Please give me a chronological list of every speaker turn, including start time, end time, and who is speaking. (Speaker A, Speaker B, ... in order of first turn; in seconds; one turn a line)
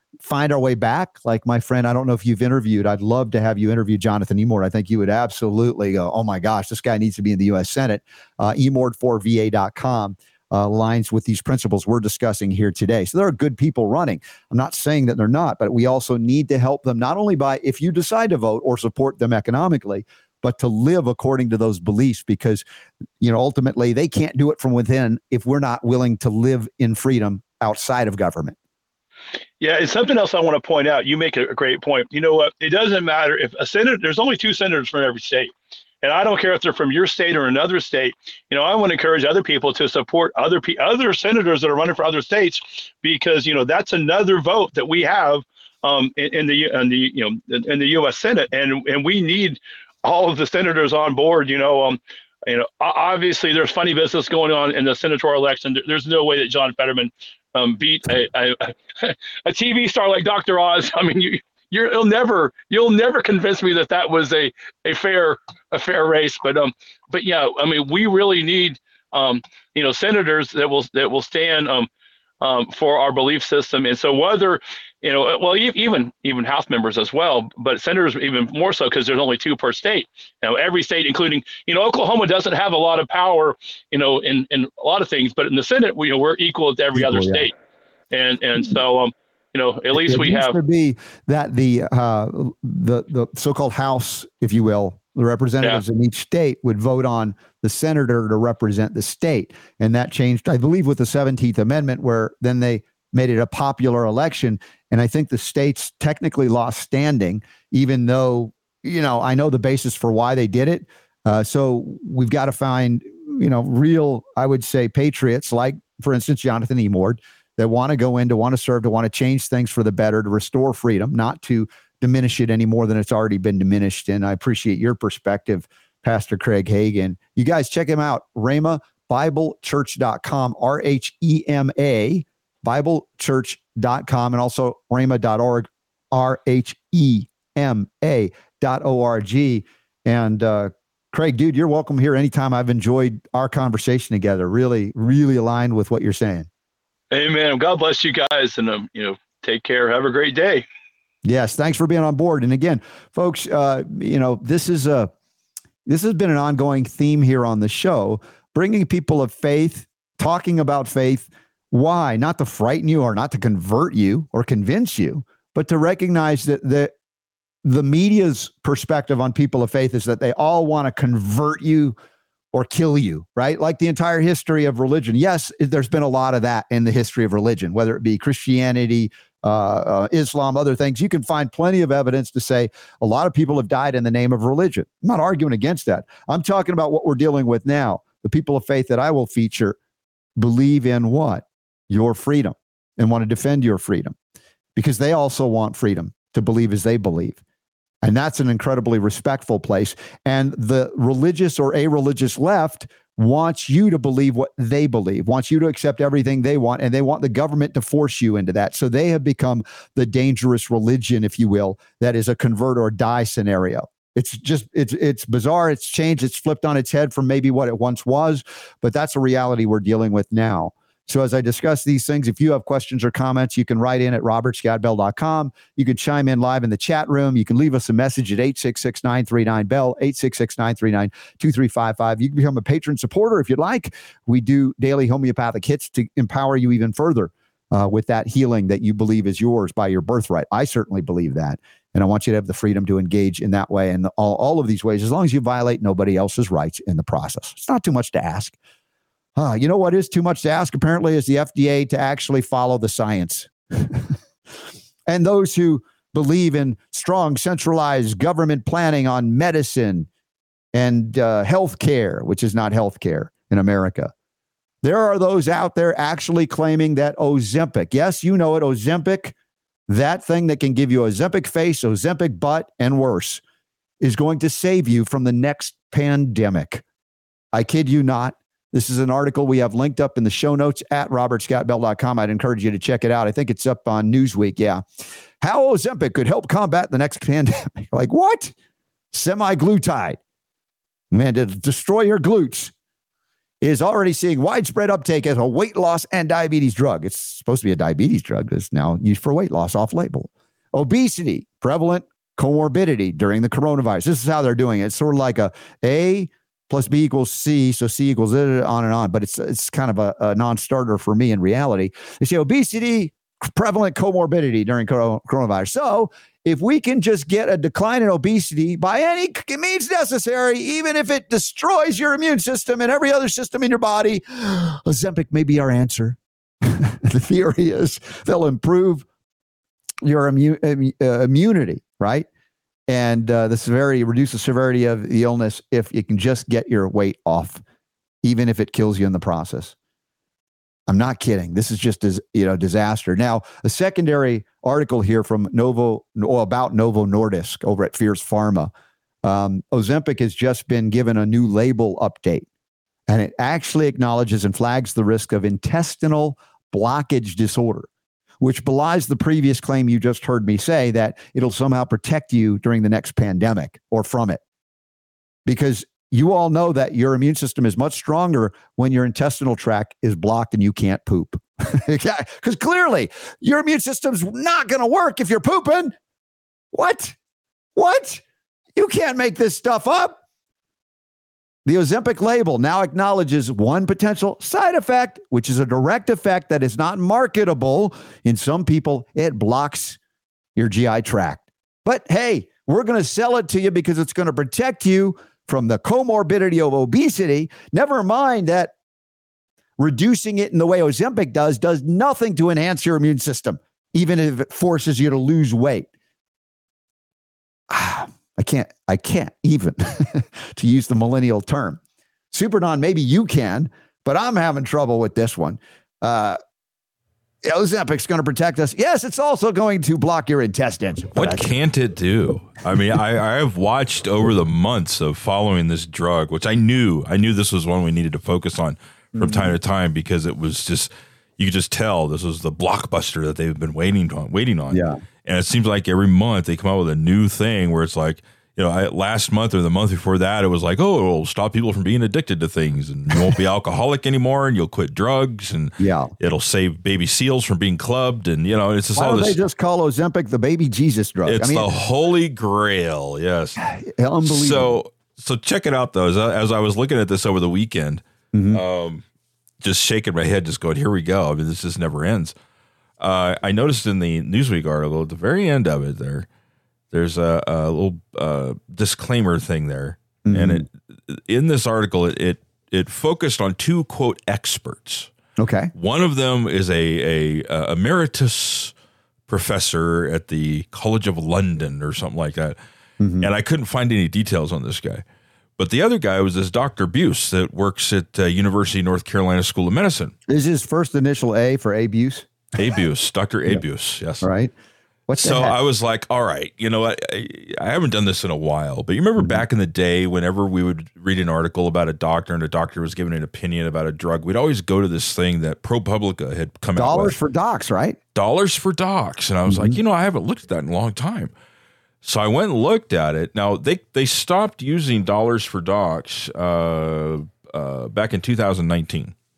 Speaker A: 0.2-22.6
Speaker A: 23.2-28.6
Speaker B: 29.6-35.5
Speaker B: 36.0-71.9
Speaker B: 72.4-87.5
Speaker A: 86.9-87.5
Speaker B: 88.1-90.5
Speaker A: 89.9-146.5
Speaker B: 147.1-150.6
Speaker A: 151.2-155.1
Speaker A: 155.8-166.9
Speaker A: 167.6-171.9
Speaker A: 172.5-189.8
Speaker A: 190.4-194.1
Speaker A: 194.8-197.4
Speaker A: 198.0-248.5
Speaker A: 249.3-254.1
Speaker A: 255.1-260.1
Speaker A: 260.7-264.1
Speaker A: 264.8-269.3
Speaker A: 269.9-273.4
Speaker A: 274.0-276.8
Speaker A: 277.5-284.8
Speaker A: 285.4-288.5
Speaker A: 289.1-290.2
Speaker A: 291.1-292.7
Speaker A: 293.6-329.0
Speaker A: 330.0-332.2
Speaker A: 332.9-337.6
Speaker A: 338.2-339.7
Speaker A: 340.9-348.7
Speaker A: 349.2-352.4
Speaker A: 353.1-357.9
Speaker A: 358.4-364.4
Speaker A: 365.4-375.9
Speaker A: 376.7-377.1
Speaker A: 377.8-378.2
Speaker A: 378.8-380.2
Speaker A: 381.6-390.0
Speaker A: 390.6-398.7
Speaker A: 399.8-405.9
Speaker A: 407.7-411.8
Speaker A: 412.3-416.4
Speaker A: 417.4-421.5
Speaker C: 421.1-449.4
Speaker A: 429.1-429.5
Speaker A: 434.7-435.0
Speaker A: 445.8-446.1
Speaker A: 448.9-451.7
Speaker C: 451.2-453.6
Speaker A: 453.6-454.8
Speaker C: 454.2-459.0
Speaker A: 458.3-458.6
Speaker C: 459.6-462.3
Speaker C: 463.0-466.3
Speaker C: 466.9-475.1
Speaker A: 470.2-470.6
Speaker A: 475.4-475.7
Speaker C: 475.7-478.7
Speaker C: 479.3-482.6
Speaker A: 483.0-483.3
Speaker C: 483.2-485.0
Speaker C: 485.6-490.1
Speaker A: 490.3-492.3
Speaker C: 492.6-494.3
Speaker A: 494.2-494.5
Speaker A: 495.1-495.6
Speaker C: 495.2-507.2
Speaker A: 506.8-508.0
Speaker C: 508.1-511.3
Speaker A: 509.5-509.8
Speaker C: 512.0-519.1